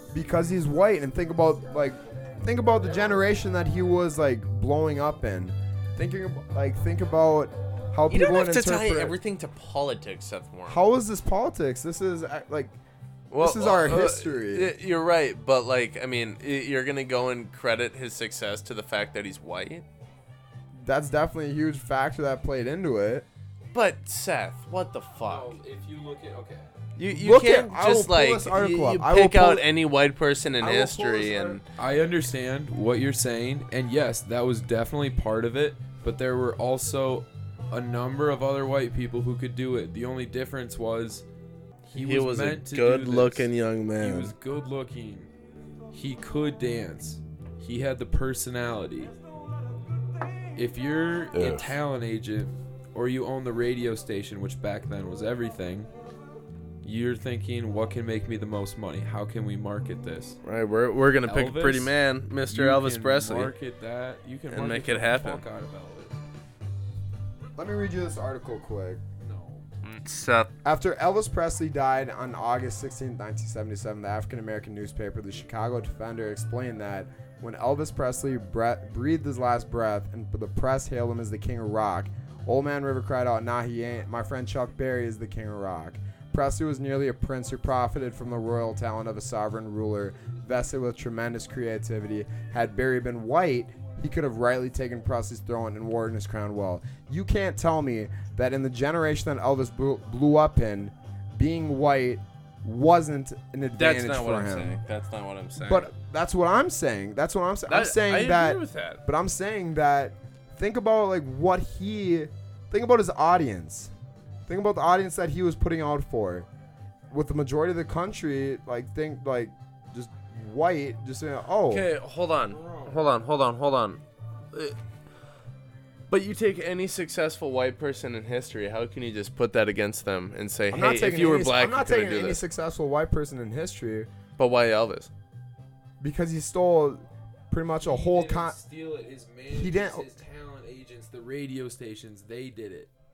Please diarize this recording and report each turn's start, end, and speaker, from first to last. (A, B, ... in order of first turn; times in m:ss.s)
0:00.1-0:09.2 A
0:08.1-0:10.8 B
0:10.6-0:12.8 A
0:13.3-0:19.8 B
0:13.4-0:14.7 A
0:20.8-0:23.3 A
0:23.7-0:25.6 B
0:25.2-0:26.7 C
0:27.0-0:31.6 B
0:27.1-0:29.6 A
0:30.6-0:31.6 A
0:31.8-0:41.3 C
0:41.9-0:44.3 B
0:41.9-0:45.3 C
0:45.9-0:49.1 C
0:50.6-0:55.9 C
0:51.3-0:51.8 B
0:56.8-1:00.4 C
1:00.4-1:03.5 B
1:01.3-1:06.2 C
1:04.5-1:05.4 B
1:07.6-1:09.0 A
1:09.2-1:09.6 C
1:09.8-1:10.5 B
1:10.6-1:44.8 A
1:43.8-1:45.9 B
1:45.6-1:53.9 A
1:47.7-1:49.0 B
1:54.5-1:56.5 A
1:57.1-2:01.9 A
2:01.7-2:04.0 B
2:02.4-2:03.0 C
2:06.1-2:12.4 B
2:10.7-2:14.1 A
2:14.4-2:15.1 B
2:16.0-2:18.6 A
2:17.8-2:22.9 C
2:19.5-2:20.1 A